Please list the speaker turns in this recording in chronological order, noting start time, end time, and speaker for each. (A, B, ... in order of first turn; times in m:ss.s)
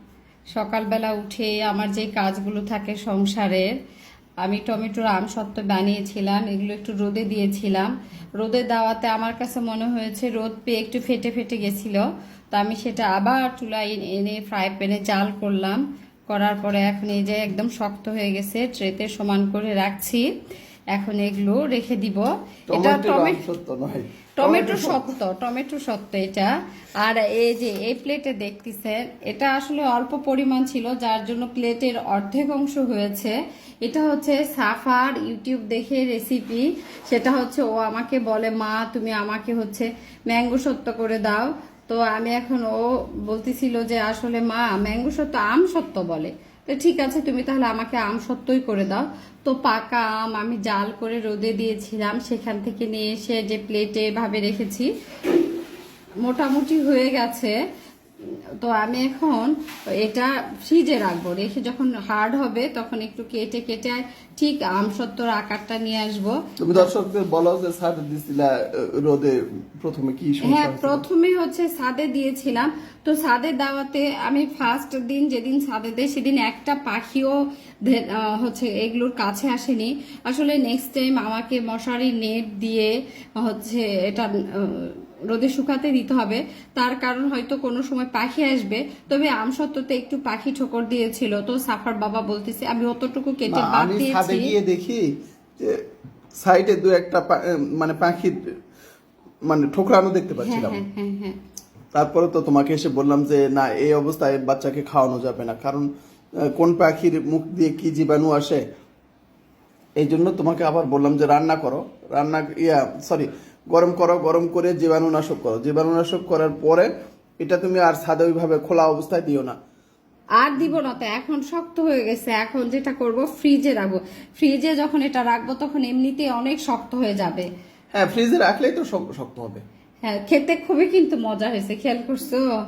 0:00.6-0:03.7 A
0:04.4-0:20.2 A
0:20.9-0:23.4 A
0:22.7-0:25.0 B
0:24.4-0:54.9 A
0:56.2-0:57.5 A
0:58.6-1:06.8 A
1:06.6-1:11.0 B
1:10.4-1:34.5 A
1:33.5-1:35.8 B
1:36.4-1:38.4 B
1:39.5-1:40.8 B
1:40.4-1:41.4 A
1:41.9-1:45.9 B
1:46.4-1:48.6 B
1:50.0-1:59.6 B
2:00.4-2:07.5 A
2:07.9-2:09.6 B
2:10.0-2:12.4 A